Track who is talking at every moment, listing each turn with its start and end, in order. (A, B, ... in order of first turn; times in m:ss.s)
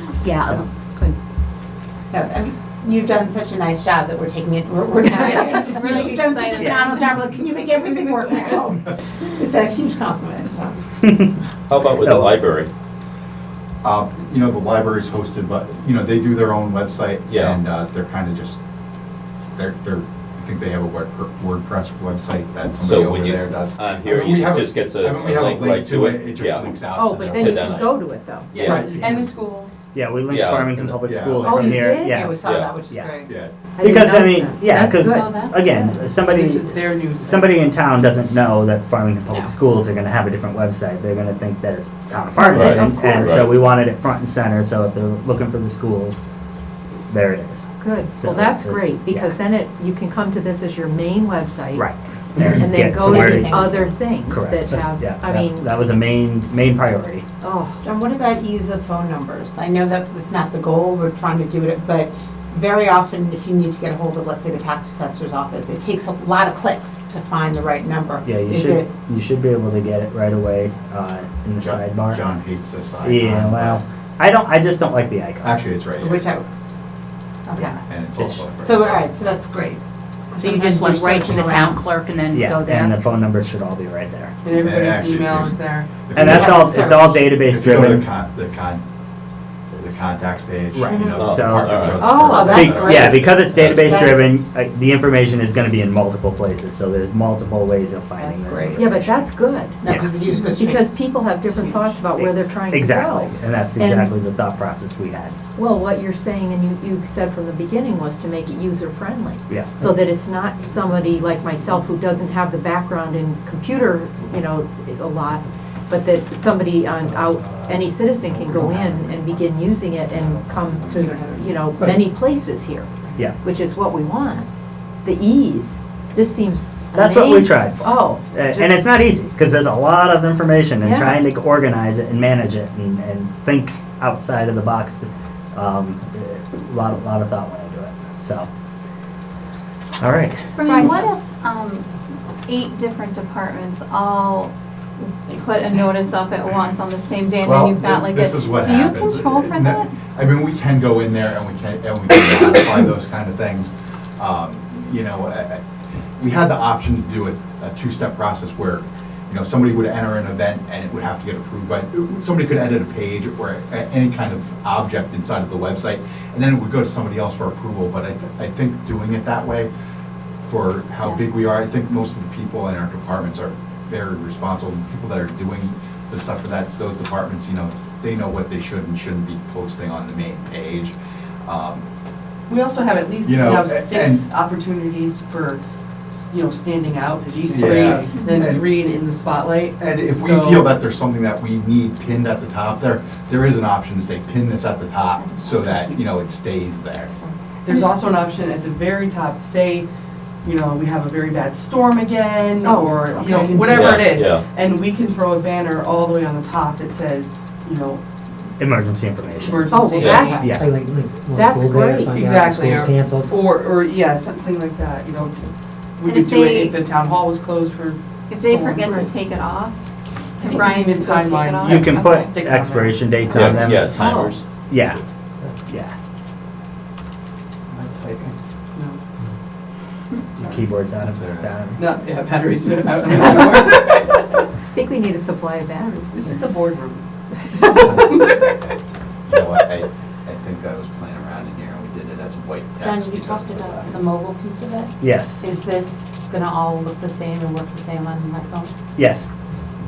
0:00.2-0:01.2 A
0:02.1-0:10.8 B
0:05.0-0:06.7 C
0:06.6-0:07.0 D
0:11.7-0:12.7 E
0:12.0-0:12.3 D
0:13.8-0:18.6 F
0:17.3-0:17.6 E
0:19.6-0:27.9 F
0:22.8-0:26.8 E
0:26.9-0:28.5 G
0:27.4-0:27.8 E
0:28.5-0:29.3 F
0:28.5-0:29.8 H
0:29.9-0:33.1 D
0:30.3-0:31.0 E
0:31.0-0:31.5 F
0:31.4-0:33.3 B
0:31.5-0:32.0 G
0:32.4-0:32.8 E
0:33.2-0:33.5 F
0:33.8-0:35.3 G
0:33.8-0:46.2 D
0:34.7-0:37.7 H
0:42.4-0:43.5 G
0:42.5-0:43.5 E
0:47.1-0:49.4 D
0:47.8-0:51.9 G
0:51.7-0:53.7 D
0:52.4-0:55.7 G
0:53.0-0:53.9 B
0:54.2-0:57.2 D
0:57.4-0:57.8 G
0:57.8-1:08.9 B
1:08.2-1:12.2 D
1:11.6-1:13.8 F
1:13.0-1:15.6 D
1:15.4-1:16.2 F
1:16.0-1:16.4 B
1:17.4-1:17.8 B
1:17.8-1:19.1 F
1:18.2-1:18.4 D
1:18.6-1:19.8 B
1:20.3-1:21.9 B
1:20.4-1:22.9 A
1:22.3-1:24.3 D
1:24.4-1:27.1 H
1:24.5-1:28.8 F
1:26.1-1:28.7 D
1:26.3-1:27.1 B
1:29.8-1:33.0 F
1:30.7-1:39.1 D
1:30.9-1:31.2 B
1:31.1-1:32.0 E
1:32.0-1:34.2 B
1:33.1-1:33.9 E
1:38.2-1:39.1 B
1:38.7-1:39.8 G
1:39.8-1:41.9 B
1:39.8-1:40.2 D
1:40.5-1:44.2 G
1:42.2-1:45.4 D
1:45.6-2:02.9 G
1:57.5-1:57.8 F
1:58.6-1:59.1 F
2:03.4-2:04.5 G
2:05.0-2:08.8 G
2:06.9-2:18.5 D
2:10.8-2:11.2 G
2:20.0-2:21.0 D
2:20.6-2:30.0 C
2:27.4-2:35.6 F
2:36.2-2:49.7 F
2:50.4-3:00.9 F
3:01.4-3:01.8 F
3:02.5-3:05.6 H
3:03.2-3:04.3 F
3:06.1-3:10.7 H
3:07.5-3:08.8 F
3:08.0-3:08.5 C
3:09.8-3:17.1 F
3:15.2-3:15.8 C
3:17.6-3:19.8 H
3:20.4-3:28.0 H
3:23.3-3:23.7 I
3:23.5-3:23.8 G
3:23.7-3:24.4 E
3:28.6-3:29.8 D
3:29.3-3:30.5 H
3:29.7-3:30.6 G
3:30.0-3:30.3 E
3:30.4-3:30.7 D
3:30.4-3:33.5 I
3:31.3-3:32.2 G
3:32.1-3:35.4 H
3:36.0-3:39.1 H
3:36.0-3:36.8 C
3:38.3-3:39.7 C
3:40.4-3:42.4 C
3:40.4-3:43.8 H
3:41.6-3:43.9 D
3:43.3-3:45.0 E
3:44.7-3:45.0 D
3:45.7-3:45.9 D
3:47.7-3:48.3 F
3:50.4-3:51.9 D
3:51.0-3:51.6 F
3:51.8-3:54.4 H
3:54.7-3:56.2 G
3:56.1-3:57.0 H
3:57.6-3:58.5 H
3:57.8-3:58.2 F
3:59.3-4:04.0 F
4:02.8-4:08.7 B
4:05.0-4:05.4 D
4:09.0-4:09.3 D